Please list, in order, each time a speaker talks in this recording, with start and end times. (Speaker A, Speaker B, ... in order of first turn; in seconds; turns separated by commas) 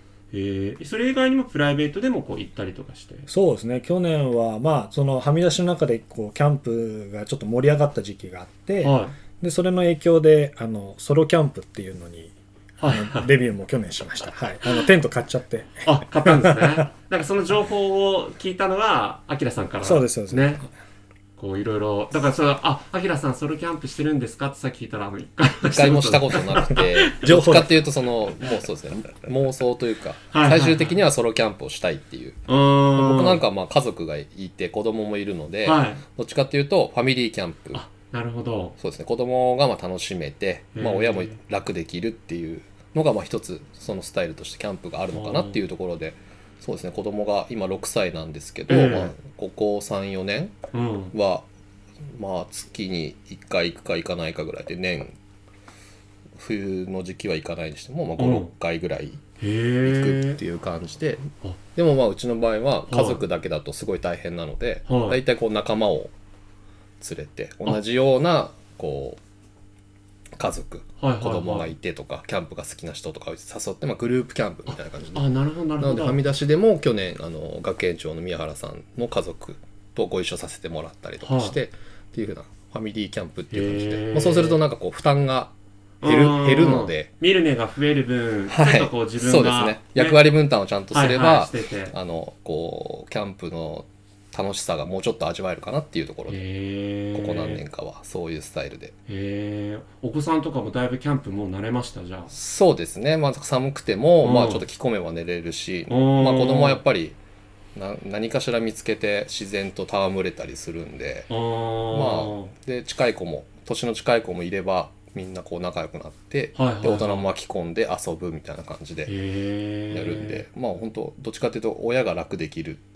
Speaker A: 0.3-3.3, Speaker B: 3.3-12.3, Speaker A: 8.8-9.2, Speaker A: 12.8-13.3, Speaker B: 12.9-16.8, Speaker A: 15.8-20.7, Speaker B: 19.8-20.7, Speaker A: 21.4-27.2, Speaker C: 25.6-37.8, Speaker B: 27.2-27.8, Speaker A: 30.3-31.0, Speaker A: 32.5-33.4, Speaker A: 35.6-36.0, Speaker A: 37.7-38.8, Speaker C: 38.8-50.5, Speaker A: 40.7-41.4, Speaker A: 45.1-45.6, Speaker A: 48.7-49.1, Speaker A: 50.7-51.1, Speaker C: 51.1-51.5, Speaker C: 52.1-55.1, Speaker C: 56.4-59.2, Speaker A: 58.2-58.5, Speaker A: 59.4-60.4, Speaker C: 59.8-66.1, Speaker A: 62.9-63.2, Speaker A: 64.9-65.2, Speaker C: 67.0-69.2, Speaker C: 70.3-85.5, Speaker A: 71.0-71.7, Speaker A: 74.7-76.2, Speaker A: 81.2-81.5, Speaker A: 83.5-84.6, Speaker A: 86.0-90.2, Speaker C: 86.0-87.1, Speaker C: 88.5-96.4, Speaker A: 90.9-91.9, Speaker A: 96.3-97.6, Speaker C: 97.1-98.9, Speaker A: 99.1-102.3, Speaker C: 102.3-107.2, Speaker A: 104.2-104.6, Speaker A: 105.9-106.8, Speaker C: 107.7-111.3, Speaker A: 111.3-112.5, Speaker C: 111.9-119.1, Speaker A: 116.5-117.2, Speaker A: 119.0-120.4, Speaker C: 119.9-122.8